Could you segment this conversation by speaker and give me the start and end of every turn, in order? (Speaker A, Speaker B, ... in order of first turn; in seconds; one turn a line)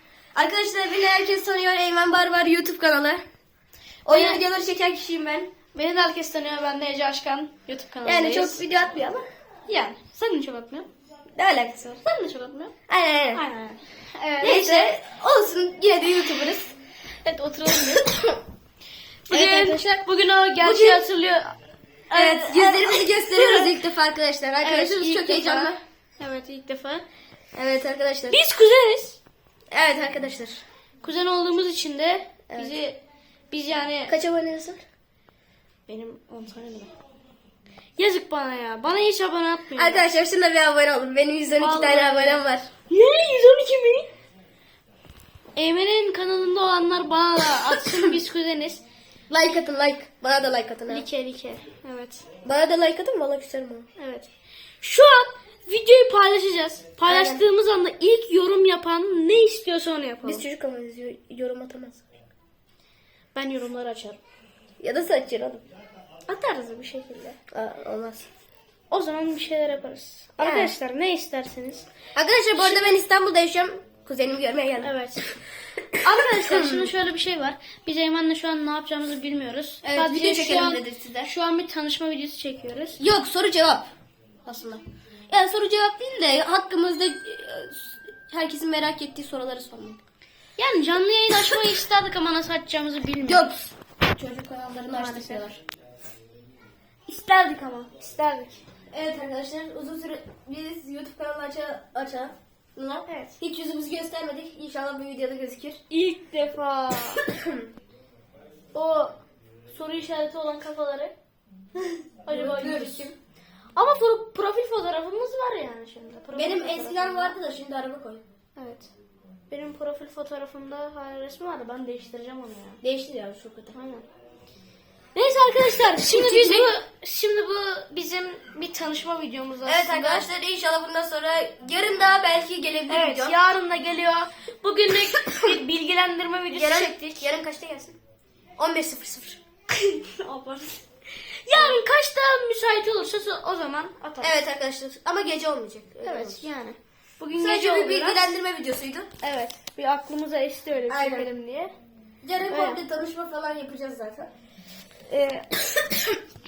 Speaker A: 0.3-3.2
Speaker A: 4.0-5.5
Speaker B: 4.1-4.4
Speaker B: 5.7-8.6
Speaker A: 8.0-9.2
Speaker B: 9.7-10.9
Speaker A: 11.4-12.0
Speaker B: 12.0-12.7
Speaker A: 12.9-13.4
Speaker B: 13.3-14.9
Speaker A: 14.4-16.8
Speaker B: 17.2-18.1
Speaker B: 19.3-21.6
Speaker A: 19.3-19.9
Speaker A: 20.6-21.0
Speaker B: 22.1-23.7
Speaker A: 22.1-25.8
Speaker B: 24.6-27.0
Speaker A: 27.6-28.4
Speaker B: 28.3-29.2
Speaker A: 29.7-30.6
Speaker B: 31.0-33.0
Speaker B: 33.5-34.1
Speaker A: 34.1-34.8
Speaker B: 35.9-36.9
Speaker B: 38.0-40.0
Speaker A: 39.7-42.7
Speaker B: 41.6-44.1
Speaker B: 45.5-48.8
Speaker A: 49.3-51.0
Speaker B: 50.9-52.2
Speaker A: 52.4-53.9
Speaker B: 54.0-54.3
Speaker B: 54.8-60.4
Speaker A: 57.1-57.4
Speaker A: 60.2-62.0
Speaker B: 63.3-64.2
Speaker A: 64.8-65.6
Speaker B: 66.3-67.4
Speaker A: 67.5-68.3
Speaker B: 68.9-71.9
Speaker A: 70.4-70.7
Speaker A: 72.2-74.9
Speaker B: 72.6-72.9
Speaker B: 74.8-75.2
Speaker A: 76.0-76.9
Speaker B: 76.0-83.0
Speaker A: 79.8-81.3
Speaker A: 83.0-83.9
Speaker A: 84.5-90.0
Speaker B: 90.6-93.5
Speaker A: 93.2-95.6
Speaker B: 94.9-95.4
Speaker B: 97.1-98.6
Speaker A: 98.9-105.8
Speaker B: 103.1-103.3
Speaker B: 105.9-107.2
Speaker A: 107.3-107.7
Speaker B: 108.7-109.2
Speaker B: 109.7-111.1
Speaker B: 112.2-113.1
Speaker A: 112.3-113.1
Speaker B: 113.8-117.4
Speaker A: 116.3-118.2
Speaker B: 118.6-118.9
Speaker B: 119.5-122.8
Speaker A: 122.8-123.8
Speaker B: 123.7-124.1
Speaker B: 125.2-130.3
Speaker A: 126.0-126.7
Speaker A: 129.7-133.4
Speaker B: 132.9-137.3
Speaker A: 136.5-138.0
Speaker A: 138.6-139.4
Speaker B: 139.7-140.8
Speaker B: 141.5-144.3
Speaker A: 144.2-146.5
Speaker B: 146.0-148.3
Speaker A: 147.4-149.1
Speaker B: 149.2-151.7
Speaker A: 150.9-151.3
Speaker A: 152.2-154.3
Speaker B: 152.5-152.8
Speaker B: 155.1-155.5